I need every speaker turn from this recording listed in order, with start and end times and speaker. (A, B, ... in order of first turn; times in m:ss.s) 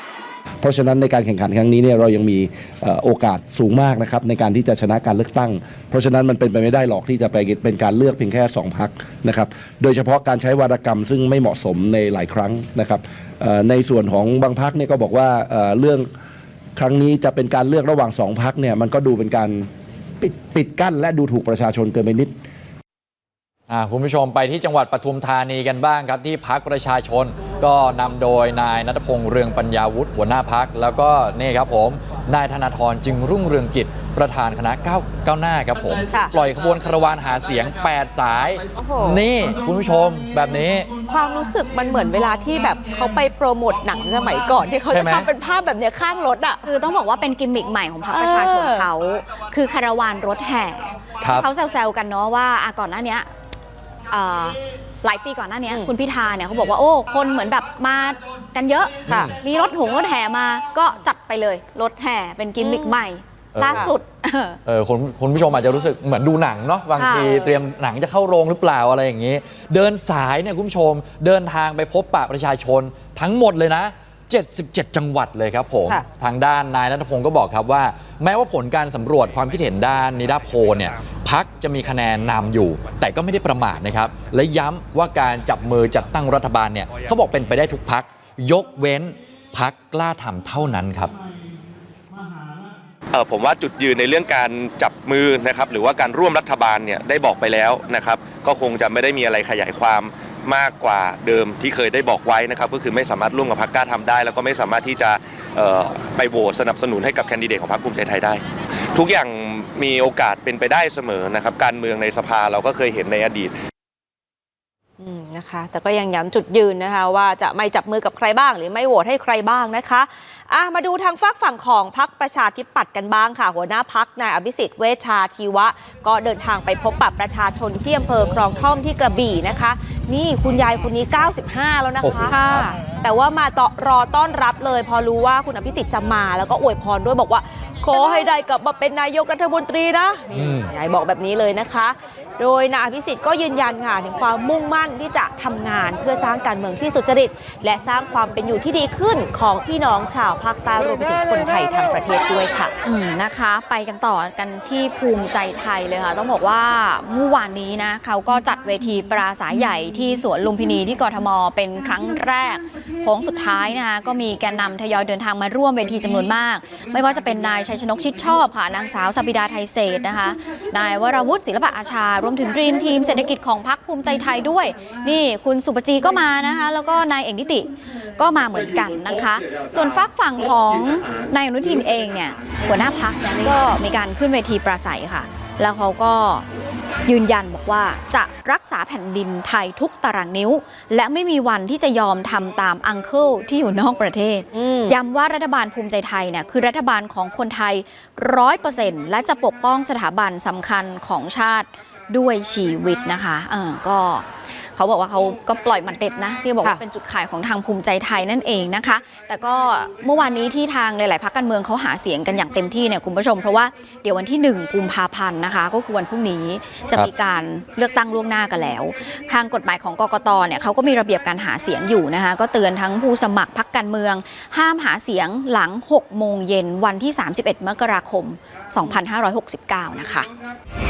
0:00.6-0:16.1 A
0:16.8-0:19.7 A
0:20.2-0:22.3 A
0:23.7-0:40.9 B
0:36.1-0:36.3 C
0:38.7-0:39.2 C
0:41.0-0:46.7 C
0:44.9-0:45.3 B
0:46.6-0:53.3 D
0:48.1-0:48.9 C
0:54.1-1:04.6 D
0:59.1-0:59.3 C
0:59.1-0:59.3 B
1:02.6-1:02.9 C
1:03.5-1:03.9 B
1:03.7-1:03.9 C
1:04.6-1:31.1 B
1:07.0-1:07.5 D
1:33.1-1:53.5 E
1:55.0-2:12.3 C
2:12.0-2:12.7 B
2:12.3-2:12.8 D
2:12.9-2:32.7 C
2:20.3-2:20.7 B
2:32.8-3:06.4 D
3:07.0-3:50.3 D
3:14.5-3:14.9 C